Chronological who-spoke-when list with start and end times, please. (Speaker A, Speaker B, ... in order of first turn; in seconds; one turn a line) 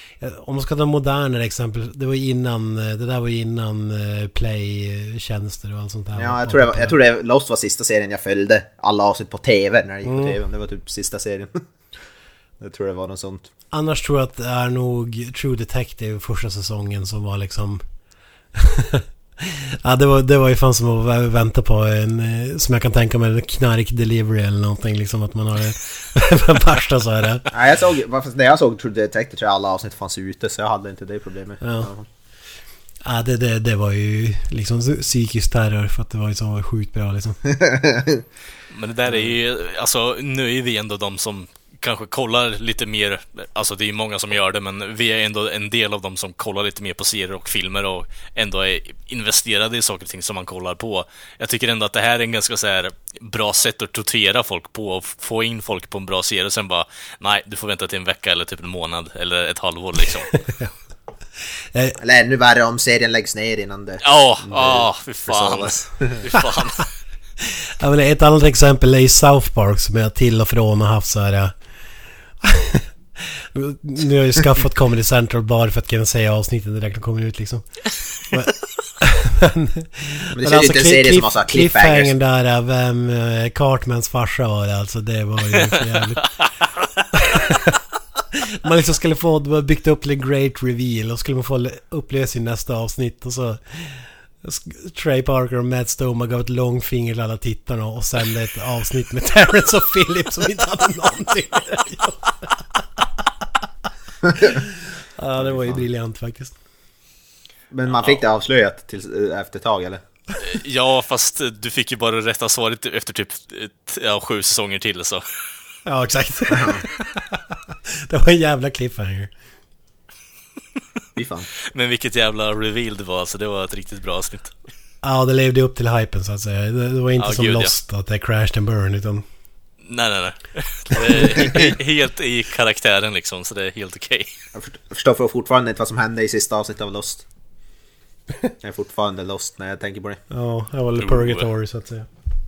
Speaker A: 0.2-6.9
Speaker B: 6.1-11.6
Speaker A: 10.1-10.4
Speaker B: 12.6-13.5
Speaker A: 13.7-17.8
Speaker A: 18.6-27.5
Speaker B: 27.5-32.0
Speaker A: 31.6-31.9
Speaker A: 33.0-37.4
Speaker B: 37.5-38.2
Speaker C: 38.7-60.4
Speaker A: 60.3-60.7
Speaker A: 61.7-62.0
Speaker B: 62.0-66.3
Speaker C: 64.0-66.8
Speaker A: 67.4-71.5
Speaker A: 72.4-77.7
Speaker A: 78.3-86.3
Speaker B: 80.3-82.1
Speaker A: 87.1-87.8
Speaker A: 88.3-102.6
Speaker A: 104.4-106.5
Speaker B: 105.4-105.8
Speaker B: 107.7-110.0
Speaker C: 110.4-115.2
Speaker A: 115.8-119.3
Speaker B: 116.5-116.8
Speaker B: 121.2-121.5
Speaker C: 121.7-124.5
Speaker A: 125.0-129.2
Speaker C: 127.2-127.7
Speaker C: 129.8-134.3
Speaker B: 134.5-137.2
Speaker B: 138.6-140.2
Speaker A: 140.3-142.1
Speaker C: 141.0-141.4